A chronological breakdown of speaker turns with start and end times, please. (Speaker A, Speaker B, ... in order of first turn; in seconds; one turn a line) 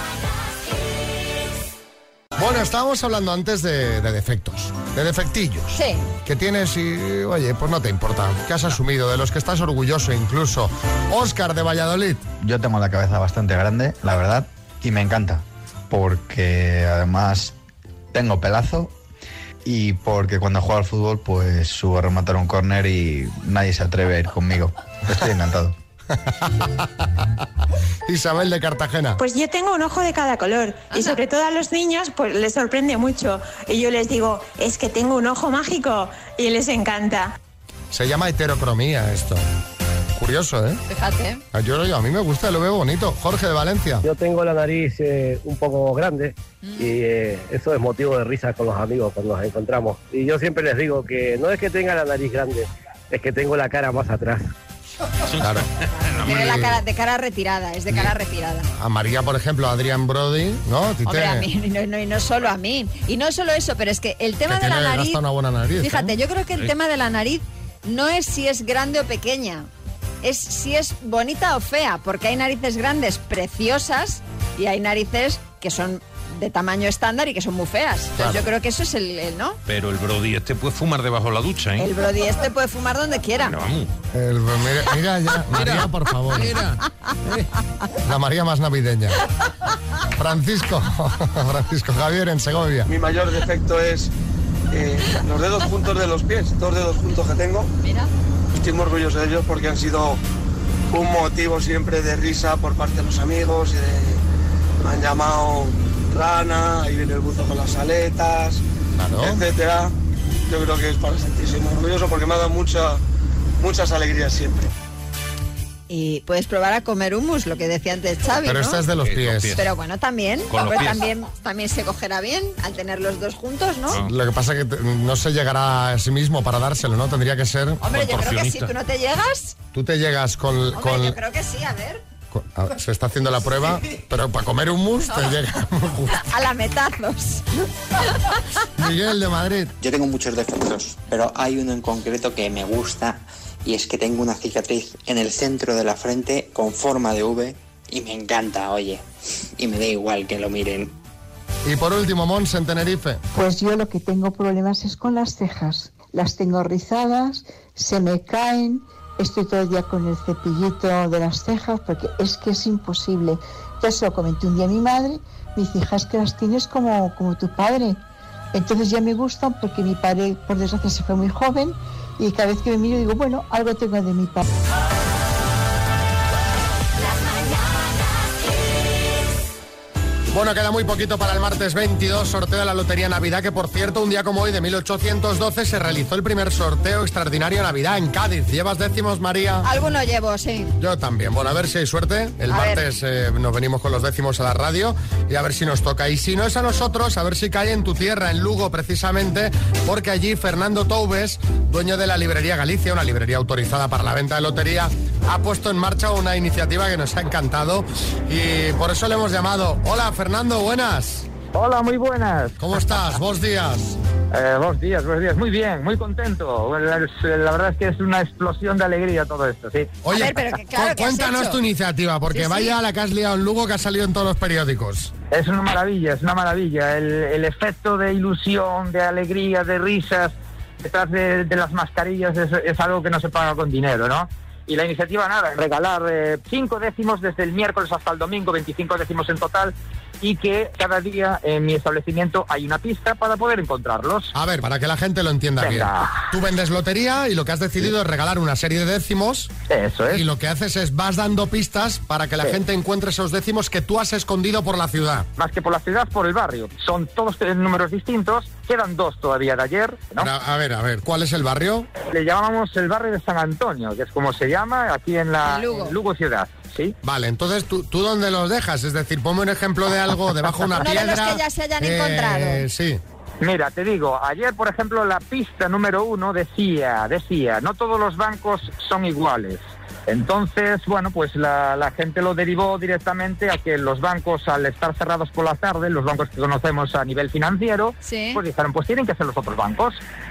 Speaker A: 2.4-12.2
Speaker B: 5.7-6.0
Speaker C: 12.4-17.6
Speaker C: 18.1-18.9
Speaker C: 19.6-25.8
Speaker A: 26.1-27.1
Speaker A: 28.1-29.2
Speaker D: 29.2-37.4
Speaker B: 30.9-31.2
Speaker A: 37.9-39.4
Speaker A: 40.2-40.8
Speaker B: 40.9-41.4
Speaker A: 41.5-44.0
Speaker E: 44.0-54.5
Speaker B: 46.6-47.0
Speaker F: 55.3-56.5
Speaker A: 55.4-55.7
Speaker B: 56.2-58.7
Speaker A: 56.2-56.8
Speaker A: 58.8-61.5
Speaker B: 61.1-65.2
Speaker A: 64.5-66.2
Speaker B: 65.8-69.7
Speaker B: 70.2-79.6
Speaker A: 78.2-78.5
Speaker F: 79.7-81.9
Speaker B: 81.8-83.6
Speaker F: 83.4-83.9
Speaker A: 84.1-86.6
Speaker F: 85.5-87.5
Speaker A: 88.0-89.2
Speaker A: 90.1-92.9
Speaker G: 92.9-94.1
Speaker G: 94.7-97.7
Speaker B: 97.8-98.1
Speaker G: 98.5-100.2
Speaker G: 100.9-104.2
Speaker G: 104.8-108.6
Speaker A: 109.0-109.4
Speaker G: 109.2-109.9
Speaker G: 110.5-113.0
Speaker G: 113.6-114.7
Speaker B: 115.9-118.8
Speaker A: 118.4-119.6
Speaker F: 119.0-119.7
Speaker B: 119.6-124.0
Speaker F: 120.5-121.1
Speaker A: 124.0-128.3
Speaker B: 127.8-129.6
Speaker F: 127.9-128.7
Speaker A: 129.7-131.2
Speaker B: 130.8-132.0
Speaker A: 132.3-136.2
Speaker B: 136.2-137.4
Speaker A: 138.8-139.7
Speaker H: 139.8-149.1
Speaker H: 149.6-150.9
Speaker A: 151.7-153.2
Speaker I: 153.3-168.0
Speaker I: 168.5-174.4
Speaker A: 180.3-189.7
Speaker B: 189.6-190.8
Speaker A: 190.8-211.3
Speaker B: 192.5-192.8
Speaker J: 211.5-212.6
Speaker A: 212.6-214.0
Speaker J: 214.3-220.0
Speaker A: 220.0-225.1
Speaker B: 220.1-221.6
Speaker B: 222.3-222.7
Speaker J: 225.3-244.3
Speaker A: 244.3-249.5
Speaker J: 245.6-246.2
Speaker J: 249.7-250.2
Speaker A: 250.1-255.3
Speaker J: 255.4-260.3
Speaker A: 260.2-261.9
Speaker J: 262.1-266.9
Speaker B: 265.4-266.0
Speaker A: 267.0-273.0
Speaker B: 270.8-272.6
Speaker J: 273.4-290.0
Speaker B: 288.0-288.4